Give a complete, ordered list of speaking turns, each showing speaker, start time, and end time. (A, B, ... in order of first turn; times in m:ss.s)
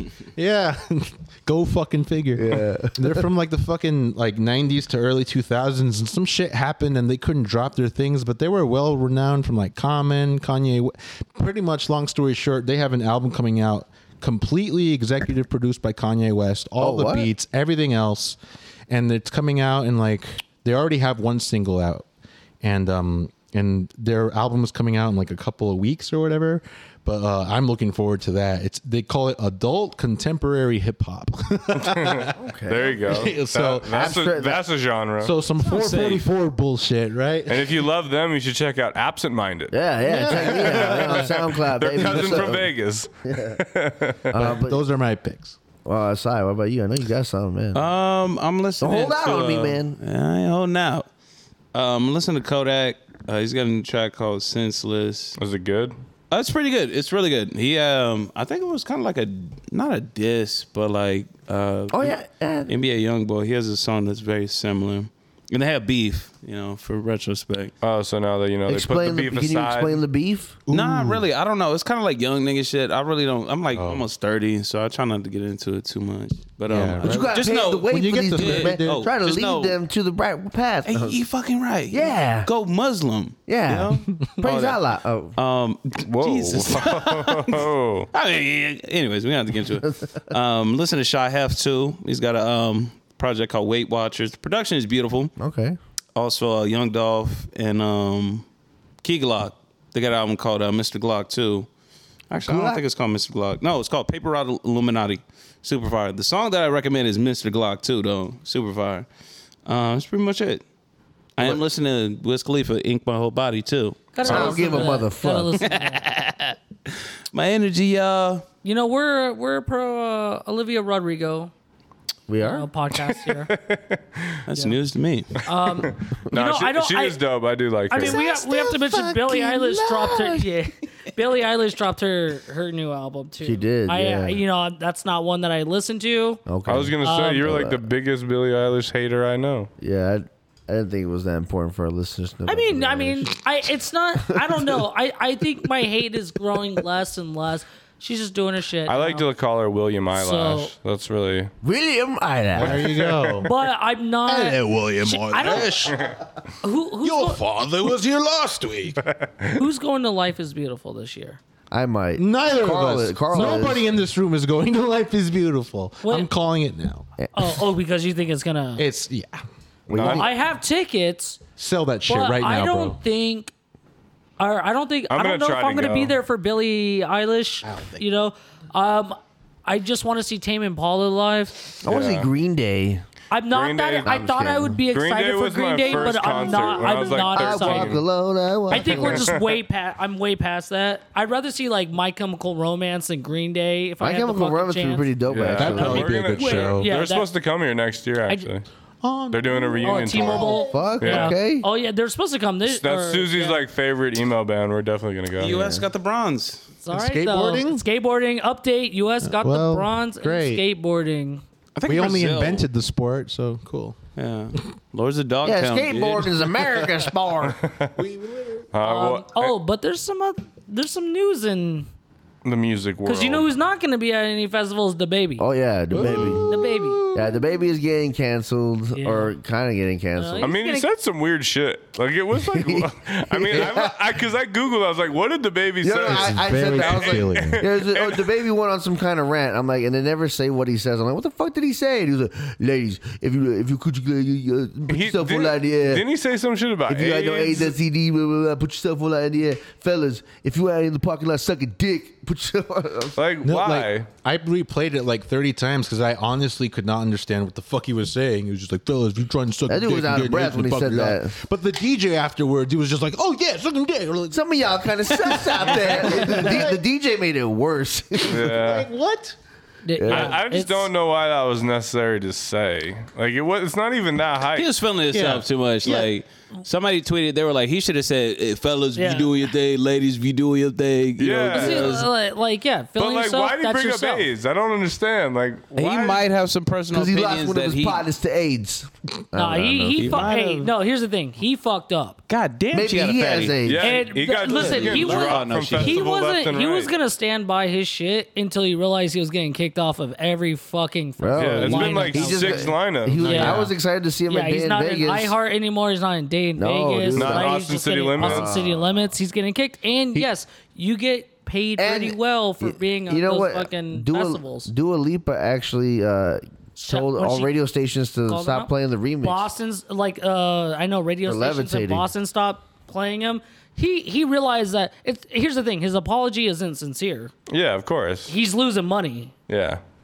0:00.4-0:18.4 A
0:02.4-0:03.3 B
0:16.8-0:17.3 B
0:18.9-0:22.1 A
0:22.6-0:32.3 A
0:31.8-0:35.3 C
0:32.3-0:33.0 B
0:33.1-0:34.1 A
0:33.9-0:34.6 B
0:35.2-0:37.9 A
0:35.6-0:36.2 D
0:37.5-0:39.8 C
0:39.7-0:42.7 B
0:40.0-0:42.6 A
0:40.3-0:44.3 C
0:43.3-0:43.6 B
0:44.3-0:44.8 B
0:44.4-0:45.6 A
0:45.8-0:47.9 B
0:47.7-0:51.1 D
0:48.8-0:50.0 B
0:51.7-0:55.4 D
0:55.4-0:55.9 C
0:56.3-1:02.2 D
1:01.9-1:02.8 B
1:02.7-1:07.7 D
1:07.8-1:10.0 C
1:08.7-1:10.6 B
1:10.7-1:11.2 A
1:10.7-1:19.8 D
1:13.7-1:14.0 A
1:16.7-1:19.0 A
1:17.0-1:21.2 B
1:20.9-1:24.8 D
1:21.9-1:22.5 B
1:23.5-1:25.4 B
1:25.4-1:35.3 D
1:26.0-1:28.1 C
1:35.4-1:35.8 B
1:36.2-1:38.4 D
1:39.0-1:41.7 D
1:42.3-1:49.1 D
1:42.4-1:42.8 B
1:49.6-1:50.6 D
1:51.4-1:54.9 D
1:54.1-1:56.0 E
1:54.2-1:55.6 B
1:54.3-1:54.6 C
1:55.6-1:58.4 D
1:58.6-2:01.5 E
2:02.3-2:02.7 B
2:02.4-2:03.5 E
2:03.1-2:04.4 C
2:04.5-2:05.4 D
2:05.4-2:07.2 E
2:05.8-2:08.2 C
2:07.9-2:16.4 E
2:08.0-2:10.3 B
2:13.4-2:14.4 B
2:16.5-2:17.8 B
2:16.7-2:19.7 C
2:17.0-2:17.5 E
2:19.8-2:23.4 B
2:22.5-2:29.3 E
2:24.5-2:24.7 B
2:28.9-2:31.5 C
2:30.1-2:30.7 E
2:31.6-2:33.0 B
2:32.6-2:33.5 A
2:32.6-2:33.4 C
2:33.4-2:36.0 E
2:34.3-2:36.2 A
2:35.9-2:36.2 C
2:36.6-2:37.4 E
2:37.0-2:39.0 A
2:39.1-2:39.6 C
2:39.6-2:41.4 E
2:41.7-2:43.9 B
2:42.2-2:47.1 A
2:46.0-2:46.3 E
2:47.3-2:48.8 E
2:48.8-2:49.4 A
2:49.9-2:50.3 B
2:49.9-2:50.3 C
2:50.0-2:51.4 E
2:51.6-2:53.0 A
2:52.1-2:53.5 E
2:54.4-3:01.8 E
2:55.1-2:56.2 C
2:57.6-2:58.0 A
3:01.8-3:03.0 B
3:01.9-3:02.3 C
3:03.3-3:08.0 E
3:03.5-3:04.1 C
3:04.0-3:04.8 B
3:04.9-3:08.0 C
3:06.6-3:09.3 B
3:08.7-3:15.1 E
3:08.7-3:09.5 C
3:14.0-3:16.1 B
3:15.3-3:18.6 C
3:15.4-3:16.9 A
3:15.8-3:17.3 E
3:19.0-3:20.7 A
3:19.3-3:21.4 C
3:19.8-3:23.6 E
3:20.6-3:21.7 B
3:22.7-3:25.6 C
3:25.4-3:26.6 D
3:25.5-3:25.9 B
3:26.8-3:31.4 E
3:26.9-3:27.8 A
3:29.2-3:30.6 A
3:31.8-3:32.7 D
3:31.9-3:34.0 A
3:34.2-3:36.4 D
3:35.4-3:37.6 B
3:37.5-3:37.9 C
3:38.0-3:38.7 A
3:38.7-3:39.5 C
3:38.8-3:41.9 E
3:42.4-3:43.5 C
3:43.1-3:45.5 E
3:45.4-3:46.5 B
3:45.9-3:47.6 A
3:46.0-3:46.4 C
3:46.5-3:47.0 E
3:47.1-3:50.5 B
3:49.0-3:49.4 E
3:50.2-3:50.9 E
3:50.4-3:58.3 C
3:52.4-3:54.0 B
3:55.8-4:06.0 B
3:56.0-3:57.7 A
4:04.9-4:07.8 C
4:06.9-4:13.2 B
4:13.2-4:14.1 C
4:13.4-4:24.4 A
4:19.7-4:21.3 B
4:24.3-4:28.5 B
4:25.1-4:26.8 A
4:28.2-4:28.9 C
4:28.2-4:29.4 A
4:29.8-4:30.9 E
4:30.0-4:30.4 B
4:30.1-4:34.7 C
4:34.6-4:42.1 D
4:35.1-4:36.1 A
4:39.0-4:39.3 E
4:41.2-4:41.9 C
4:41.5-4:44.3 E
4:43.0-4:46.2 C
4:45.7-4:48.0 D
4:46.9-4:50.3 B
4:49.3-4:52.2 E
4:50.0-4:50.7 D
4:52.3-4:53.6 D
4:52.7-4:54.1 B
4:53.6-4:56.9 C
4:53.8-5:03.7 E
4:54.4-4:56.0 D
5:01.2-5:05.4 B
5:01.4-5:03.6 C
5:03.2-5:03.7 A
5:04.3-5:14.7 E
5:06.6-5:07.5 B
5:07.1-5:08.6 C
5:08.2-5:08.8 B
5:11.8-5:19.5 B
5:16.8-5:17.5 E
5:18.3-5:18.7 E
5:19.2-5:27.3 E
5:21.2-5:22.1 B
5:27.5-5:28.3 C
5:28.3-5:29.3 E
5:29.5-5:29.8 C